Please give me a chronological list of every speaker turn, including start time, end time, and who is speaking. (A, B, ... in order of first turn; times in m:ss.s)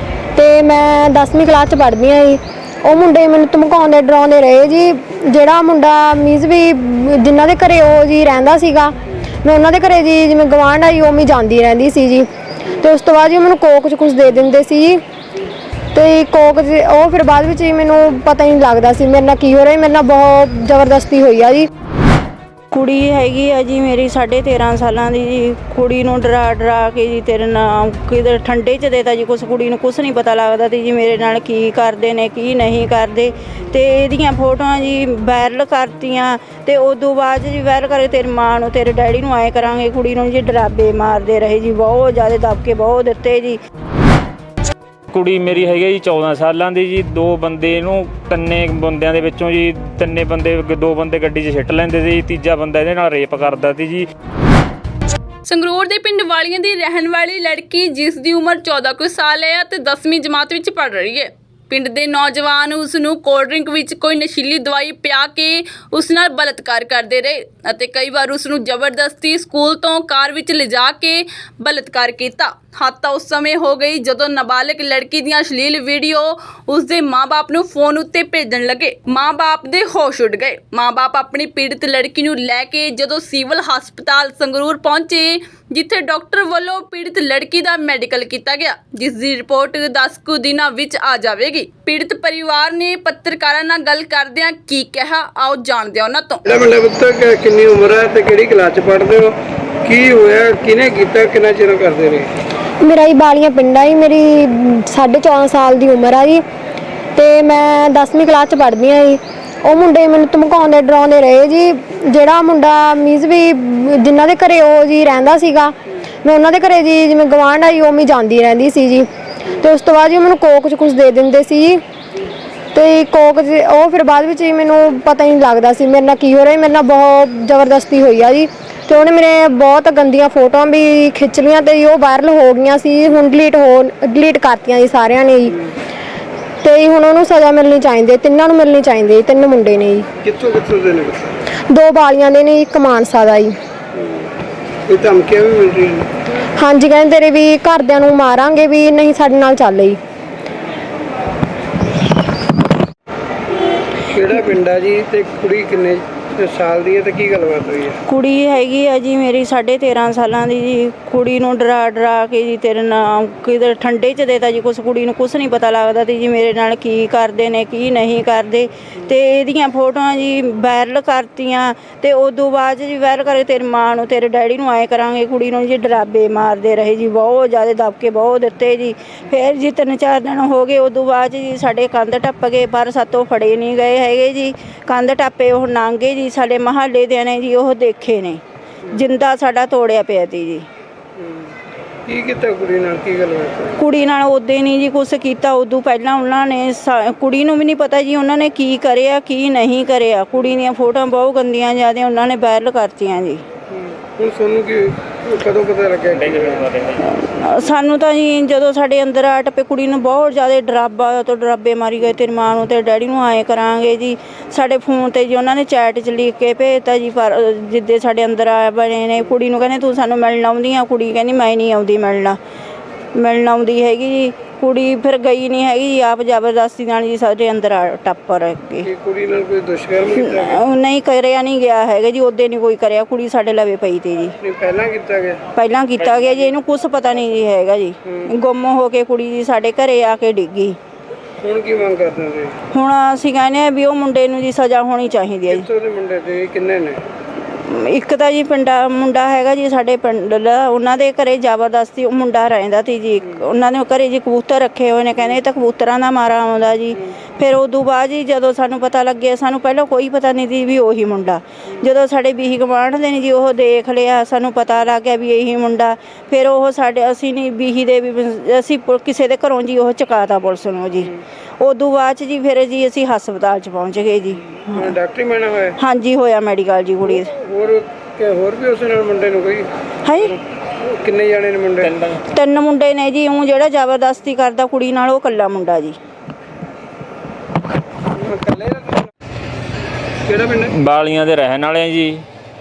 0:00.3-0:15.0 A
0:15.9-0:21.7 A
0:22.7-0:43.6 B
0:45.1-0:54.0 C
0:55.4-1:36.4 D
1:36.4-1:42.3 E
1:42.8-1:46.4 A
1:47.1-2:01.8 A
2:02.7-2:15.6 A
2:16.6-2:20.0 A
2:20.2-2:21.4 E
2:21.7-2:23.6 A
2:23.9-2:24.3 E
2:24.9-2:26.1 E
2:26.6-2:30.0 A
2:34.1-2:38.0 E
2:38.1-3:08.4 B
3:08.9-3:10.6 B
3:11.2-3:11.5 E
3:12.1-3:13.8 E
3:13.8-3:23.4 B
3:23.7-3:26.6 E
3:26.1-3:27.0 C
3:27.0-3:42.4 B
3:43.1-3:48.9 B
3:48.8-3:50.6 E
3:50.1-3:54.4 B
3:54.4-3:55.4 E
3:55.5-4:00.8 B
4:01.4-4:02.6 E
4:02.7-4:05.7 B
4:05.5-4:07.0 E
4:07.6-4:35.0 B
4:34.7-4:35.8 E
4:35.8-4:37.3 B
4:37.1-4:39.7 E
4:40.0-4:40.4 B
4:40.3-4:41.9 E
4:41.8-4:42.3 C
4:42.3-4:46.0 B
4:48.2-4:49.1 E
4:50.2-4:50.7 E
4:50.7-4:52.2 C